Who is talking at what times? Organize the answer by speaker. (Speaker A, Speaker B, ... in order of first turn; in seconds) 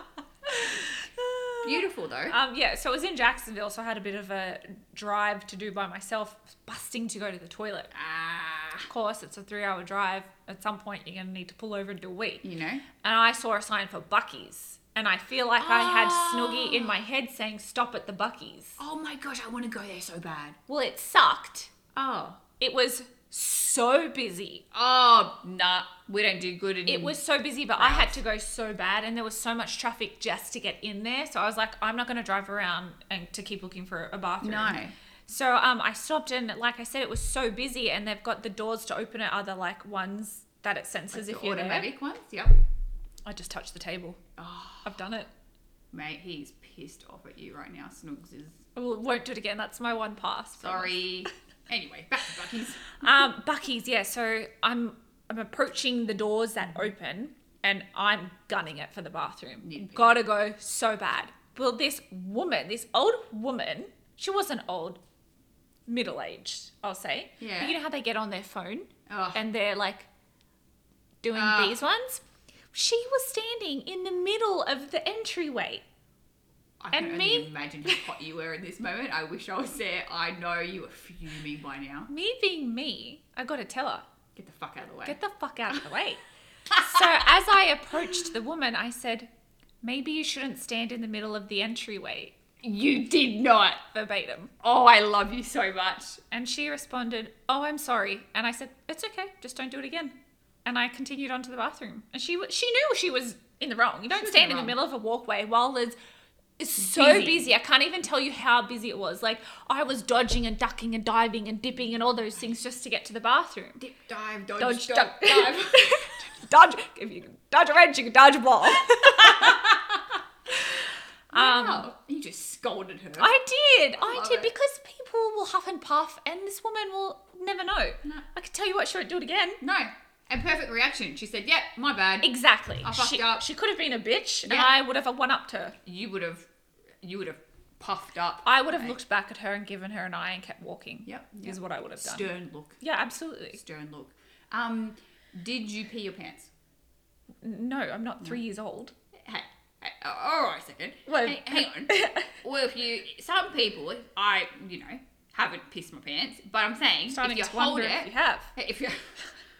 Speaker A: 0.5-7.9, 8.9-12.4, 13.0-18.8, 20.7-21.7, 22.6-24.6, 26.9-41.9, 43.2-44.2, 44.8-45.3, 48.8-51.0, 53.0-65.0, 65.9-70.1, 71.2-72.2, 72.7-75.8, 76.9-78.0, 82.1-84.0, 85.0-89.3, 89.8-92.3, 93.9-94.5, 96.3-106.0, 106.6-113.8, 114.6-119.7, 120.6-121.8, 123.2-129.6, 132.2-135.8, 138.4-143.6, 147.4-148.9, 151.1-152.3, 157.1-158.5
Speaker B: 1.6-2.4, 7.9-8.9, 12.4-12.8, 15.6-17.0, 18.8-20.6, 21.9-22.4, 24.7-27.2, 27.8-28.2, 34.4-34.9, 41.1-42.6, 44.4-44.9, 45.9-48.6, 50.6-53.0, 59.6-60.2, 67.4-67.8, 69.1-69.4, 71.3-71.8, 76.8-82.1, 84.3-85.2, 86.8-87.0, 92.6-93.8, 94.6-96.2, 104.1-104.8, 106.8-107.5, 113.8-116.0, 119.0-120.2, 121.3-123.3, 124.0-124.5, 129.6-133.5, 134.4-134.7, 135.8-136.5, 137.0-139.0, 141.0-142.8, 143.5-146.5, 149.1-159.2